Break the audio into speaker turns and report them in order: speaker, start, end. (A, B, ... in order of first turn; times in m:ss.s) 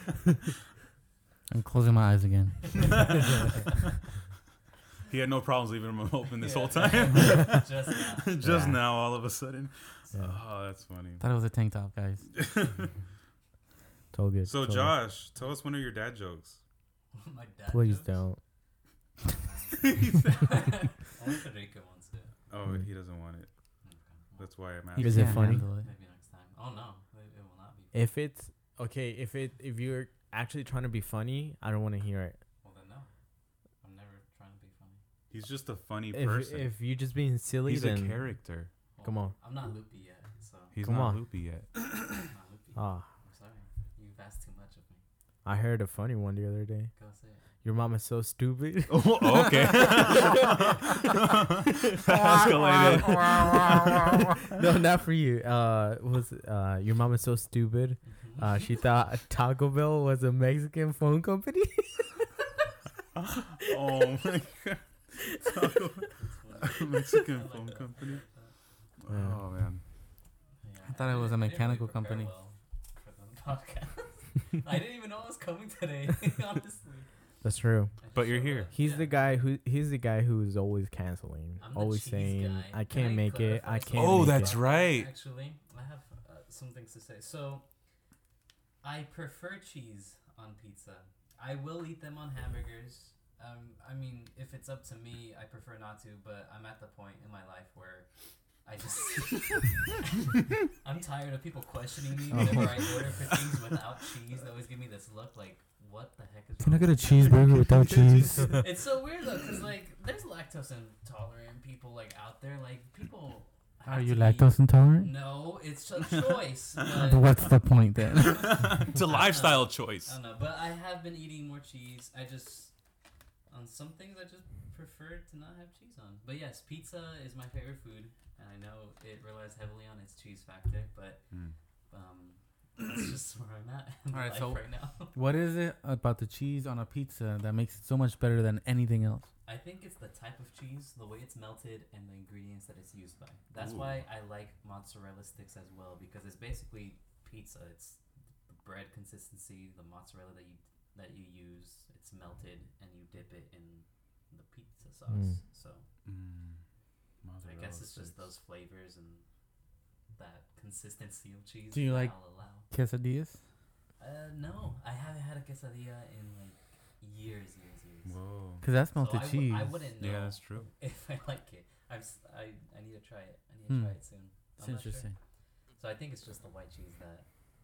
0:01.5-0:03.2 A
0:02.7-0:03.8 B
0:05.1-0:11.2 C
0:06.4-0:08.3 B
0:08.4-0:08.8 D
0:11.2-0:12.3 A
0:12.4-0:12.9 C
0:14.1-0:15.0 D
0:14.5-0:16.6 C
0:17.1-0:18.2 B
0:17.7-0:18.4 D
0:19.2-0:22.3 B
0:19.8-0:20.7 C
0:22.5-0:23.5 C
0:23.8-0:24.5 B
0:24.4-0:25.5 C
0:25.0-0:25.9 A
0:25.0-0:25.6 D
0:25.7-0:28.0 B
0:27.9-0:32.4 D
0:32.6-0:33.1 B
0:33.8-0:35.0 B
0:35.3-0:36.7 C
0:36.1-0:38.2 D
0:37.6-0:38.7 C
0:38.9-0:40.7 B
0:39.0-0:39.3 D
0:40.7-0:41.7 C
0:40.8-0:41.2 D
0:42.1-0:45.0 B
0:42.8-0:43.1 D
0:45.4-0:46.9 D
0:47.0-0:47.4 B
0:47.6-1:02.2 D
0:48.9-0:54.4 C
0:58.1-0:58.7 B
1:03.1-1:08.2 C
1:03.6-1:04.1 D
1:06.1-1:08.5 B
1:09.0-1:09.8 C
1:09.1-1:09.4 D
1:10.6-1:17.1 B
1:10.8-1:12.3 A
1:17.4-1:17.9 D
1:18.0-1:19.4 B
1:18.1-1:18.7 C
1:18.7-1:24.6 D
1:21.6-1:27.6 B
1:23.9-1:25.1 C
1:28.8-1:38.1 B
1:38.6-1:47.4 B
1:42.3-1:43.0 A
1:46.6-1:48.6 A
1:47.6-1:48.6 C
1:48.5-1:57.5 B
1:53.9-1:55.1 A
1:56.9-1:58.8 A
1:58.2-2:00.1 C
1:58.9-2:02.7 B
2:03.5-2:11.2 B
2:11.9-2:15.2 B
2:14.1-2:14.6 A
2:15.1-2:19.3 A
2:19.4-2:35.8 B
2:23.6-2:24.0 C
2:35.1-2:35.4 D
2:36.0-2:36.6 C
2:37.2-2:38.3 C
2:37.4-2:39.2 B
2:40.2-2:42.7 B
2:41.7-2:42.1 A
2:42.7-2:43.4 A
2:44.0-2:48.1 B
2:48.0-2:48.6 C
2:48.6-2:49.8 A
2:48.9-2:55.1 B
2:50.0-2:50.7 C
2:53.7-2:53.9 A
2:54.6-2:55.1 A
2:55.8-2:57.3 B